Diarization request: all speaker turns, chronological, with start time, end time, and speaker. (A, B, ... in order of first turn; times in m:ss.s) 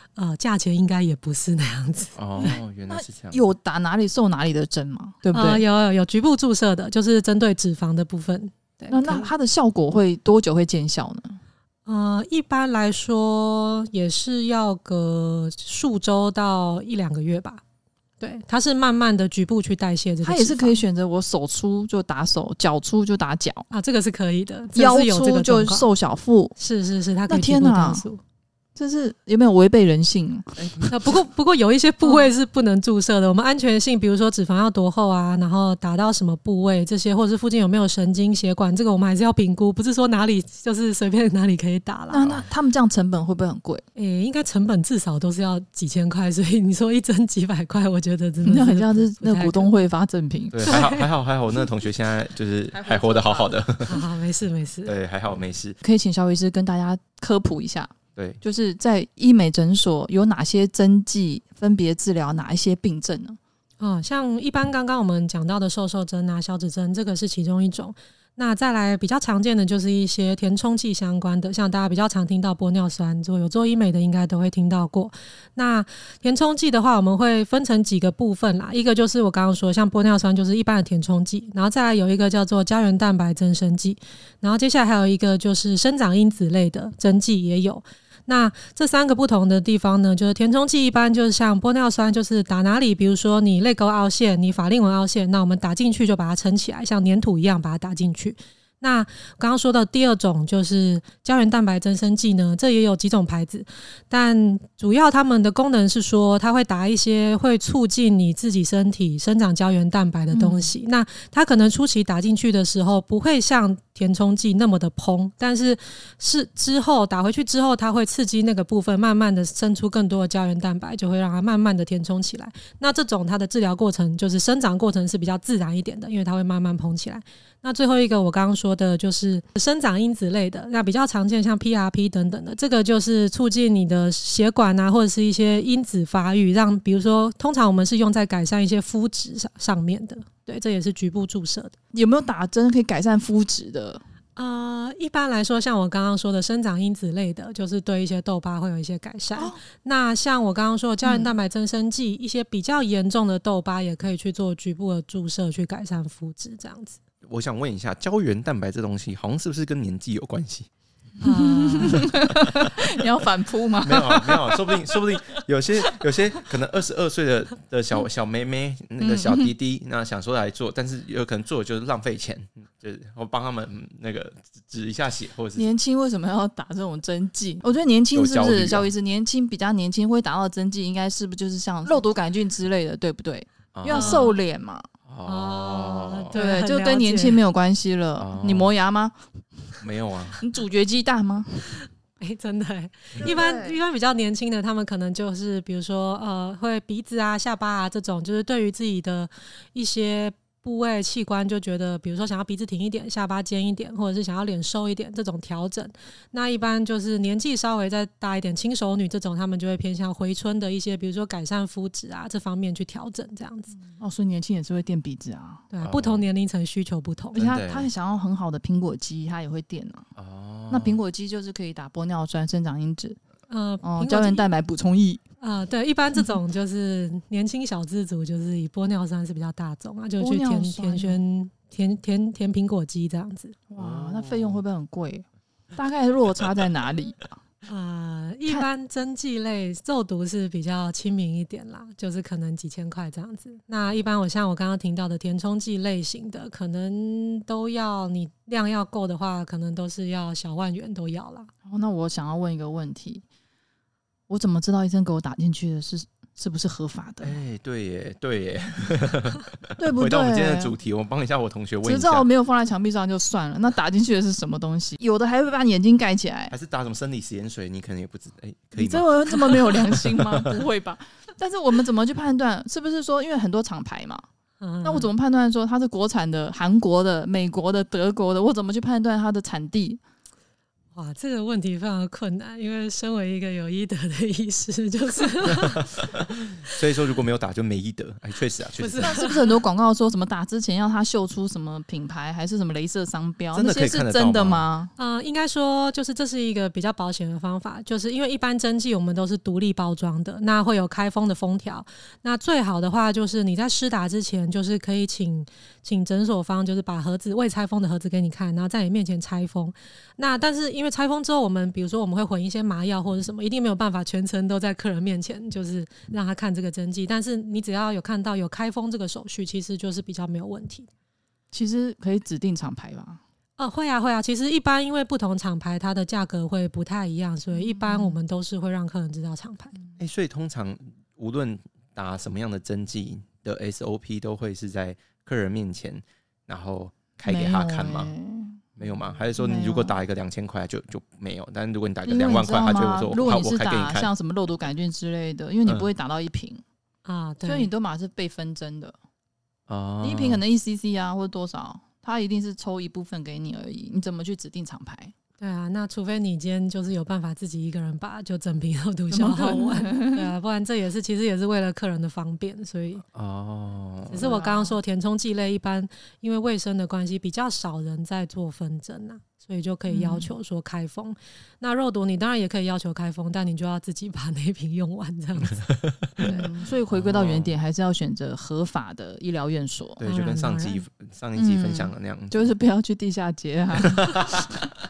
0:00.2-0:02.6 A
0:02.2-0:03.4 B
0:02.4-0:05.6 C
0:05.3-0:09.3 A
0:08.9-0:11.4 C
0:11.9-0:17.6 A
0:18.2-0:20.8 A
0:20.2-0:23.7 C
0:23.7-0:25.9 A
0:24.8-0:26.5 C
0:26.6-0:28.2 A
0:27.3-0:28.0 C
0:28.8-0:30.6 C
0:30.6-0:31.0 B
0:30.9-0:42.3 A
0:32.0-0:32.3 C
0:42.1-0:43.8 C
0:44.0-0:49.7 A
0:48.4-0:50.8 C
0:50.5-0:54.0 B
0:50.7-0:51.1 A
0:52.7-0:53.6 C
0:53.9-0:55.0 A
0:54.8-0:55.8 B
0:55.8-1:03.4 C
0:58.2-0:58.4 B
1:03.8-2:21.7 A
1:50.3-1:50.7 C
2:21.9-2:24.0 C
2:24.4-2:37.0 A
2:31.0-2:31.3 C
2:37.3-2:40.7 B
2:41.2-2:42.1 A
2:41.2-2:45.4 C
2:43.8-2:55.7 B
2:49.0-2:49.5 C
2:55.6-3:04.9 C
2:58.1-2:58.9 B
3:03.8-3:04.4 B
3:03.9-3:04.4 A
3:05.1-3:06.3 B
3:05.2-3:07.4 A
3:06.3-3:09.2 C
3:08.2-3:08.7 B
3:09.8-3:10.4 B
3:10.4-3:11.8 C
3:12.2-3:33.7 A
3:13.2-3:13.8 C
3:33.8-3:35.7 C
3:35.7-3:37.4 A
3:35.8-3:36.3 B
3:37.4-3:40.1 C
3:37.4-3:37.9 B
3:40.2-3:41.0 B
3:40.7-3:43.2 C
3:43.5-3:44.5 A
3:43.8-3:45.2 C
3:45.4-3:53.6 A
3:50.2-3:51.2 C
3:53.7-3:57.3 C
3:53.8-3:54.6 B
3:57.7-4:11.5 A
4:11.7-4:13.2 C
4:14.3-4:17.4 C
4:17.2-4:22.3 B
4:19.8-4:20.7 C
4:21.8-4:26.5 C
4:26.5-4:30.5 B
4:28.8-4:34.2 C
4:34.6-4:35.1 A
4:34.8-4:40.0 C
4:40.9-4:46.1 A
4:46.6-4:49.2 B
4:48.8-4:49.6 A
4:49.0-4:54.9 C
4:53.5-4:54.7 B
4:55.0-5:20.9 A
5:21.5-5:23.2 C
5:23.6-5:29.8 A
5:27.5-5:28.2 C
5:30.0-5:38.1 B
5:37.3-5:38.6 C
5:38.8-5:44.1 B
5:39.4-5:40.0 C
5:42.0-5:46.6 C
5:47.0-5:47.7 A
5:47.4-5:49.0 C
5:49.7-5:50.4 B
5:50.0-5:55.1 C
5:55.4-6:03.0 A
5:59.1-6:00.3 C
6:03.1-6:04.3 B
6:04.1-6:15.7 A
6:04.2-6:04.8 C
6:09.9-6:10.3 C
6:16.2-6:20.0 C
6:16.9-6:17.6 B
6:20.0-6:22.5 B
6:20.0-6:20.8 A
6:21.4-6:24.7 C
6:24.0-6:24.3 B